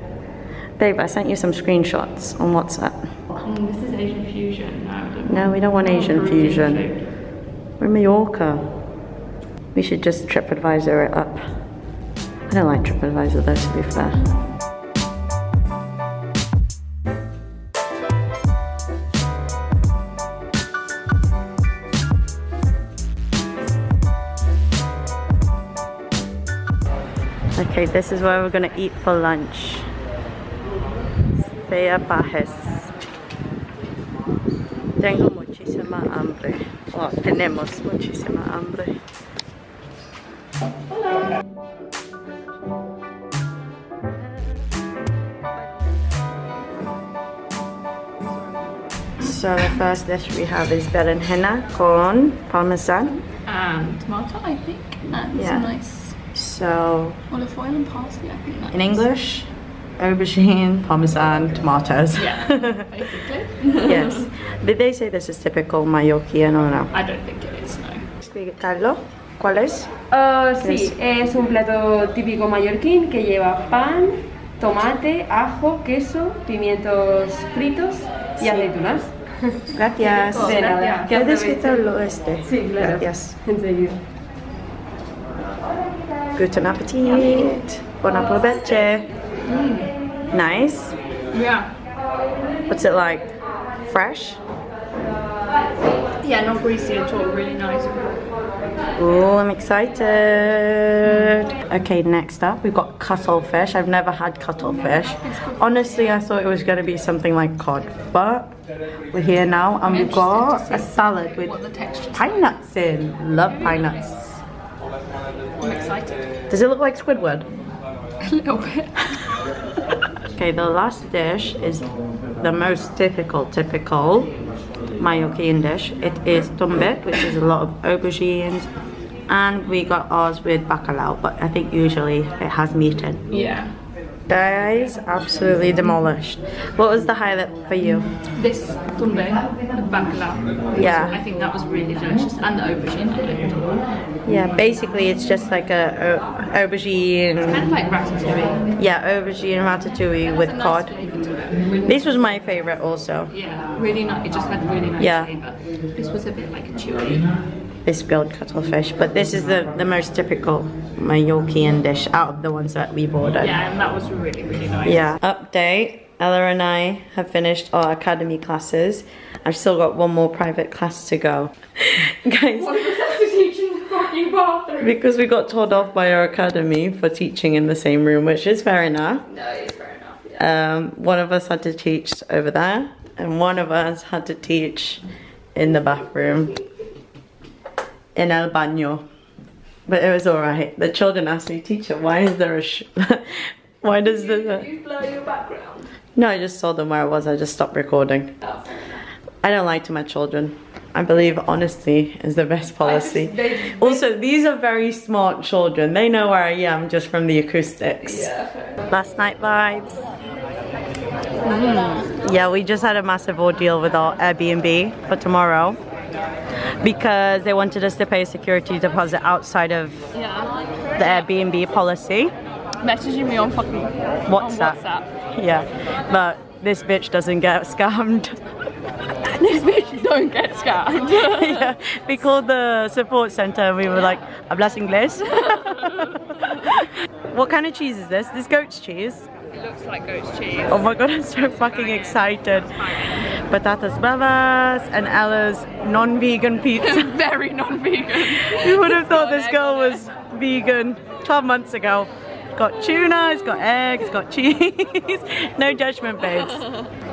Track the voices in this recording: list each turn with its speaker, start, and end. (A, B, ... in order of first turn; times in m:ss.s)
0:00.8-0:03.2 A
0:03.4-0:07.1 B
0:05.2-0:06.9 A
0:07.8-0:08.7 A
0:09.7-0:11.4 A
0:12.5-0:14.2 A
0:27.5-0:29.9 A
0:31.4-0:32.9 A
0:35.0-0:39.0 A
0:49.2-0:53.2 A
0:53.2-0:56.2 B
0:55.3-0:57.2 A
0:57.3-0:59.1 B
0:58.7-1:02.8 A
1:02.1-1:04.3 B
1:03.8-1:06.9 A
1:06.9-1:08.1 B
1:08.2-1:09.9 A
1:10.1-1:19.6 C
1:10.6-1:11.0 A
1:18.4-1:18.7 A
1:19.7-1:23.4 A
1:20.0-1:21.1 B
1:20.4-1:21.9 C
1:22.4-1:24.0 C
1:26.3-1:29.1 A
1:29.4-1:30.0 B
1:30.3-1:31.0 A
1:31.3-1:31.8 B
1:32.7-1:34.4 A
1:36.2-1:38.2 B
1:39.0-1:48.5 A
1:44.8-1:46.2 B
1:49.1-1:51.5 A
1:49.9-1:52.5 B
1:52.1-1:54.1 A
1:53.5-1:54.4 B
1:55.6-1:56.3 B
1:56.5-1:57.4 A
1:58.2-1:59.3 B
2:00.3-2:04.3 A
2:05.0-2:08.7 A
2:09.3-2:13.2 A
2:13.3-2:13.7 B
2:14.3-2:18.1 A
2:18.3-2:23.8 B
2:20.8-2:21.2 A
2:24.2-2:27.7 A
2:27.5-2:28.7 B
2:28.8-2:31.0 A
2:30.3-2:31.9 B
2:31.8-2:33.3 A
2:33.3-2:37.4 B
2:35.0-2:35.3 A
2:37.8-2:43.6 A
2:43.4-2:45.1 B
2:44.8-2:53.0 A
2:52.6-2:55.0 B
2:54.8-2:59.2 A
2:59.3-3:00.4 B
3:00.4-3:05.0 A
3:05.5-3:06.6 A
3:08.1-3:09.0 A
3:09.9-3:14.7 A
3:14.0-3:15.9 B
3:16.1-3:18.3 A
3:18.4-3:19.0 B
3:19.4-3:28.3 A
3:22.8-3:24.0 B
3:28.0-3:28.7 B
3:28.9-3:30.0 A
3:31.4-3:35.8 A
3:31.5-3:32.1 B
3:36.8-3:40.1 A
3:40.1-3:41.3 B
3:41.0-3:42.3 A
3:42.8-3:45.1 B
3:44.3-3:44.8 A
3:45.3-3:48.4 A
3:49.2-3:51.7 B
3:51.1-3:59.3 A
3:55.5-3:56.1 B
3:59.5-4:01.0 B
4:00.7-4:07.2 A
4:01.5-4:03.4 B
4:06.8-4:10.0 B
4:08.1-4:16.6 A
4:16.4-4:16.9 B